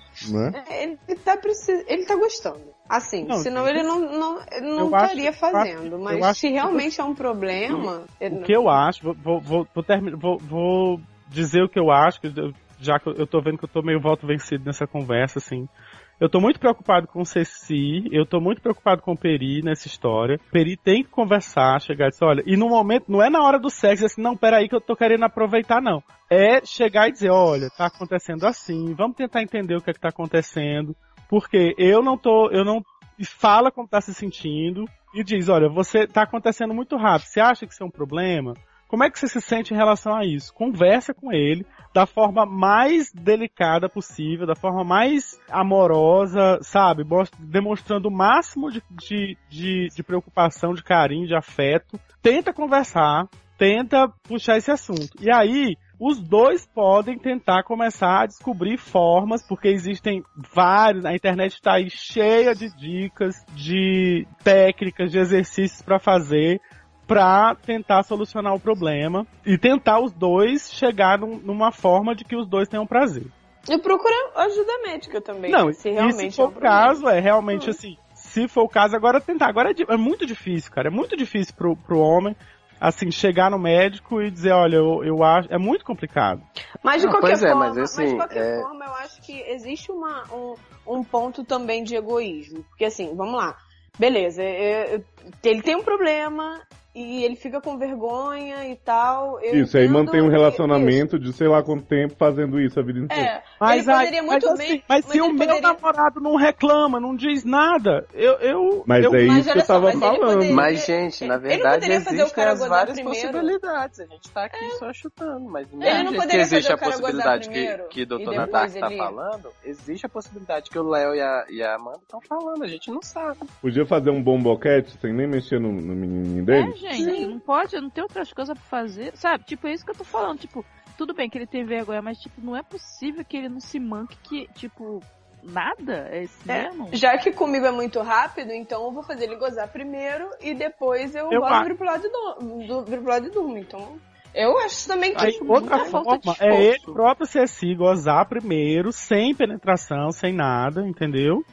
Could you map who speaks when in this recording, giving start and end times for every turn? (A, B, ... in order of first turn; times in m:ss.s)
0:00.2-0:00.6 A
0:00.6-0:08.8 B
0:03.2-0:03.9 C
0:04.8-0:06.9 C
0:08.3-1:13.3 C
1:13.7-1:17.8 B
1:15.5-1:26.4 C
1:26.8-1:41.1 B
1:27.0-1:28.7 D
1:39.5-1:43.3 A
1:43.1-1:45.8 B
1:43.6-1:49.3 C
1:48.9-1:50.7 A
1:49.1-1:53.6 B
1:50.5-2:03.5 D
1:54.6-1:54.8 B
1:55.8-1:59.2 B
2:03.6-2:06.8 A
2:06.5-2:17.0 E
2:06.9-2:07.4 B
2:16.5-2:26.0 B
2:21.3-2:21.7 C
2:25.1-2:27.0 E
2:25.2-2:31.4 C